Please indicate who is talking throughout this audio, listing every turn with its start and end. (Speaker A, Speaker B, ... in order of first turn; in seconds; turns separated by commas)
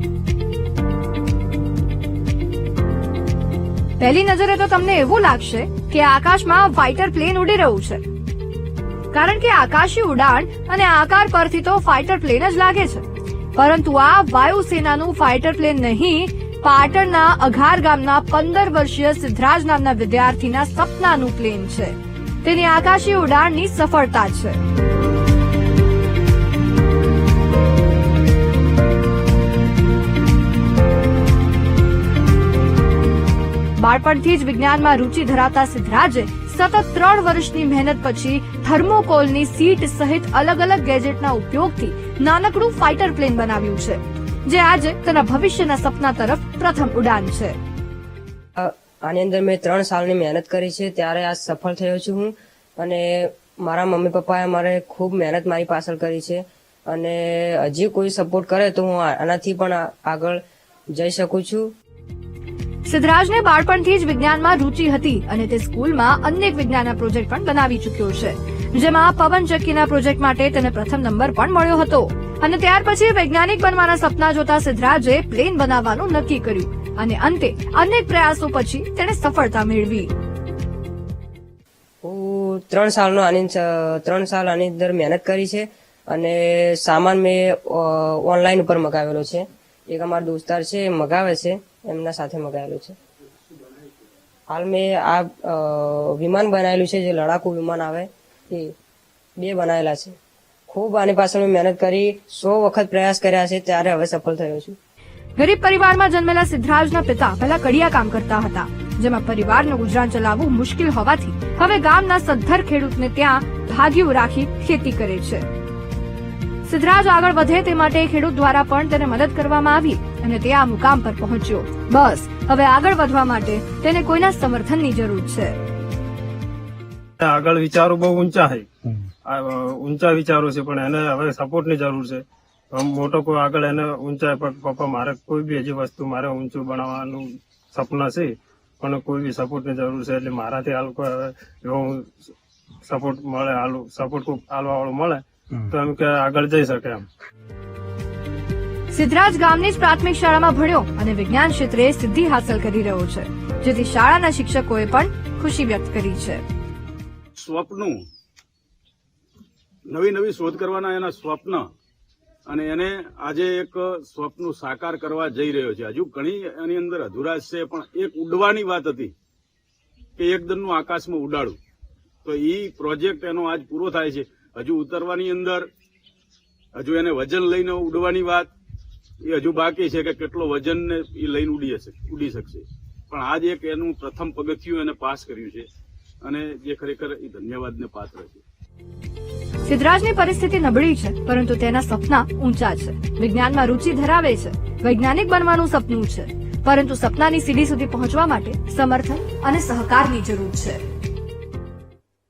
Speaker A: 4.0-8.1, Speaker A: 9.1-24.6, Speaker A: 33.8-47.6, Speaker B: 48.6-61.7, Speaker A: 62.9-80.1, Speaker B: 82.0-93.0, Speaker B: 94.5-98.7, Speaker B: 99.4-100.2, Speaker B: 100.7-104.8, Speaker A: 105.4-115.5, Speaker A: 116.7-125.6, Speaker C: 127.2-128.7, Speaker C: 129.2-142.1, Speaker C: 142.9-147.1, Speaker A: 148.9-156.4, Speaker D: 157.4-158.0, Speaker D: 159.9-161.7, Speaker D: 162.5-169.1, Speaker D: 170.2-171.6, Speaker D: 172.2-175.7, Speaker D: 176.8-178.5, Speaker D: 179.2-185.7, Speaker D: 186.2-188.4, Speaker A: 189.7-200.8